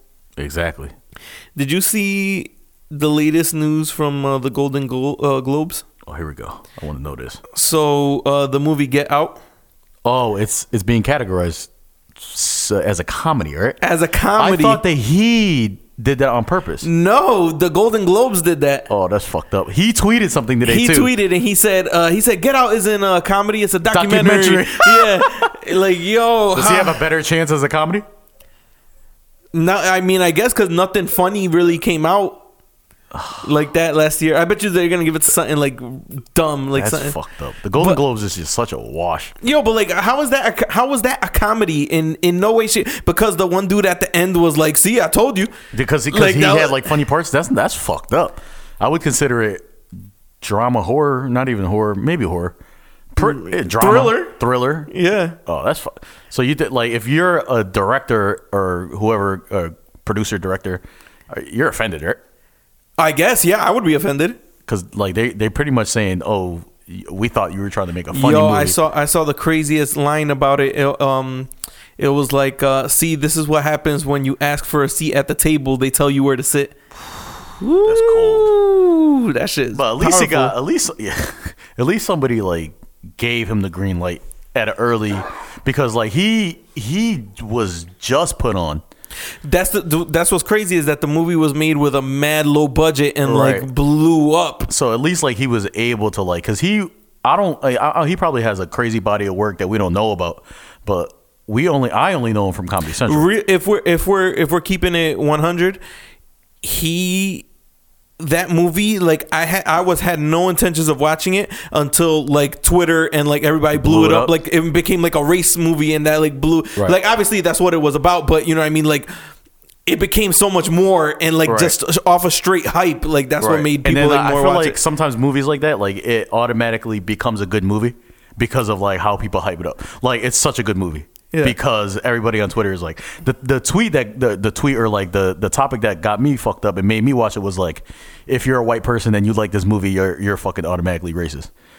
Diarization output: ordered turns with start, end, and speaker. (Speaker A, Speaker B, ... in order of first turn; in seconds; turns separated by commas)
Speaker A: 0.4-0.9, Speaker B: 1.6-5.8, Speaker A: 6.0-7.4, Speaker B: 7.5-9.4, Speaker A: 10.0-13.8, Speaker B: 13.8-14.8, Speaker A: 14.4-16.9, Speaker B: 16.8-18.9, Speaker A: 18.9-21.1, Speaker B: 20.6-27.0, Speaker A: 23.9-25.5, Speaker A: 26.5-28.0, Speaker B: 29.5-32.4, Speaker A: 33.1-33.4, Speaker B: 33.4-37.1, Speaker A: 36.7-39.3, Speaker B: 39.4-45.5, Speaker A: 45.7-49.6, Speaker B: 46.1-46.9, Speaker A: 50.4-52.5, Speaker A: 53.1-54.9, Speaker B: 53.2-54.3, Speaker B: 54.9-55.4, Speaker A: 55.5-62.2, Speaker B: 63.0-64.4, Speaker A: 64.7-68.8, Speaker B: 68.1-76.8, Speaker B: 77.6-80.5, Speaker A: 77.8-78.5, Speaker A: 79.7-88.8, Speaker B: 89.4-94.7, Speaker A: 93.2-93.7, Speaker A: 94.7-103.2, Speaker B: 103.0-105.8, Speaker B: 106.6-107.5, Speaker B: 108.2-119.1, Speaker A: 113.8-114.3, Speaker B: 119.8-124.8, Speaker A: 121.5-121.7, Speaker A: 123.4-141.5